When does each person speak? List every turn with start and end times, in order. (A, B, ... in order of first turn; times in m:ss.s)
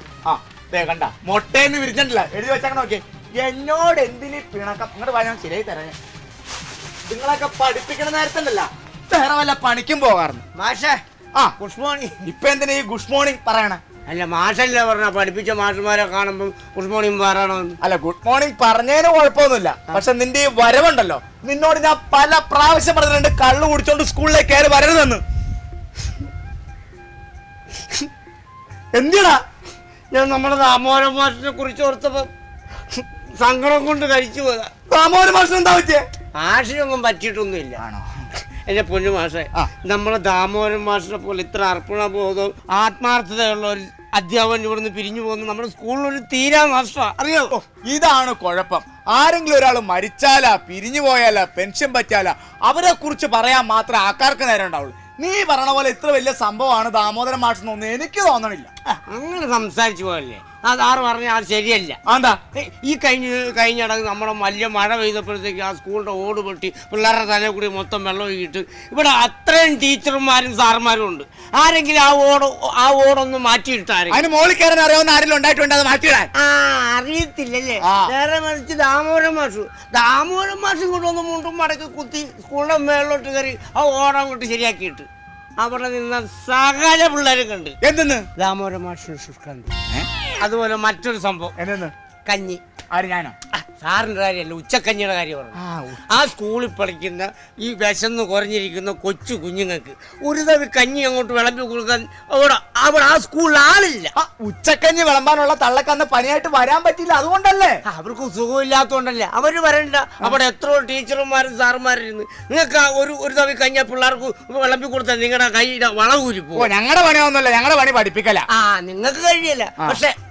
0:00.2-0:06.0 A
0:07.1-0:10.4 A
0:10.5-0:11.0 B
0:11.6-0:12.1 B
0:12.2-0:13.8 A
0:14.1-0:17.8 B
0:17.8-0:25.2 A
0:28.9-0:29.4 A
0:30.1-0:32.3 B
0:32.9-0:34.7 B
0:34.9-0:36.0 A
0:36.4-0:37.8 B
0:37.8-0:38.2 A
0:38.7-0:47.5 B
0:47.5-0:58.7 A
0:59.1-1:02.0 B
1:02.1-1:02.4 A
1:02.5-1:14.2 B
1:14.1-1:16.3 A
1:16.4-1:25.1 B
1:17.8-1:18.1 A
1:25.6-1:27.7 B
1:27.8-1:28.2 A
1:28.4-1:29.7 B
1:30.4-1:31.5 B
1:31.6-1:31.9 A
1:32.2-1:32.6 B
1:32.9-1:33.4 A
1:33.5-1:35.6 B
1:35.6-1:36.0 A
1:36.1-1:44.1 B
1:44.2-1:47.8 A
1:47.9-1:56.7 B
1:56.6-1:58.5 A
1:58.5-2:00.1 B